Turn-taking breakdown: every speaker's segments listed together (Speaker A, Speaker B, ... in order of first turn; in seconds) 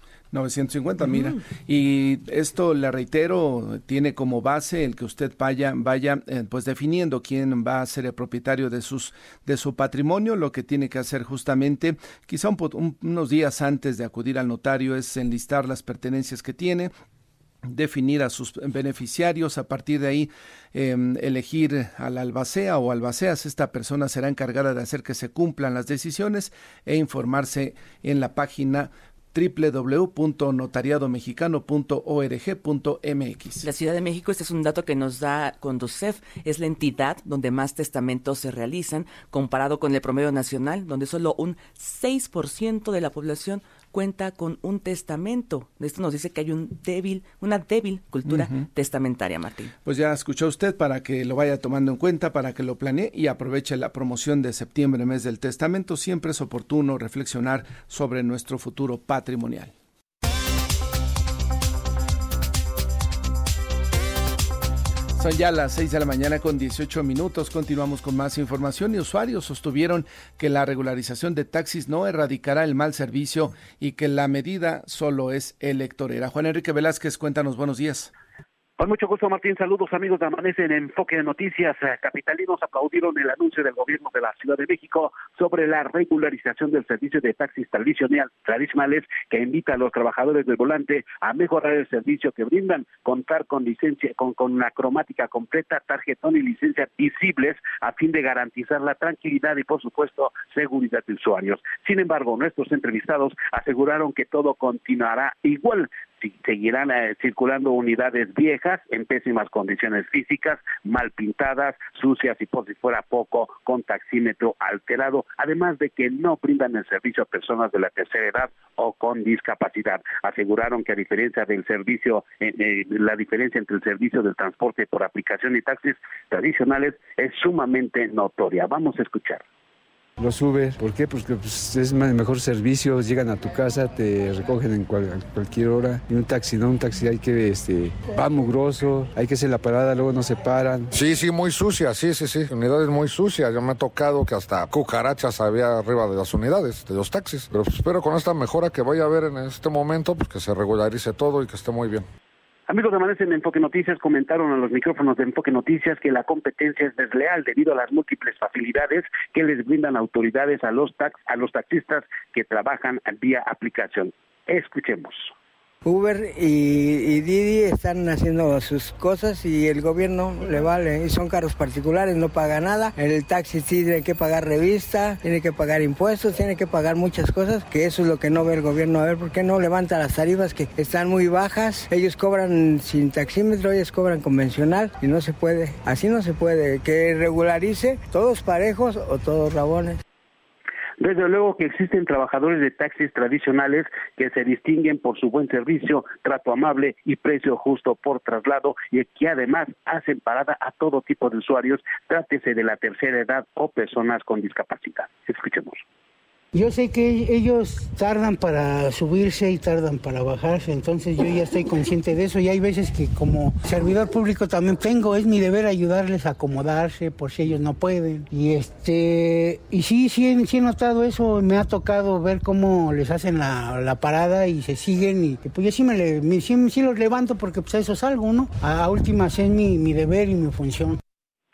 Speaker A: 0.3-16.9, 17.6-33.6, 48.2-48.6, 49.9-59.7, 65.2-78.1
Speaker B: 1.0-1.4, 33.6-49.7
Speaker C: 78.8-129.4, 152.7-165.3, 191.0-205.8
Speaker D: 130.2-140.9
Speaker E: 140.9-152.1
Speaker F: 165.8-190.0
Speaker G: 206.5-231.0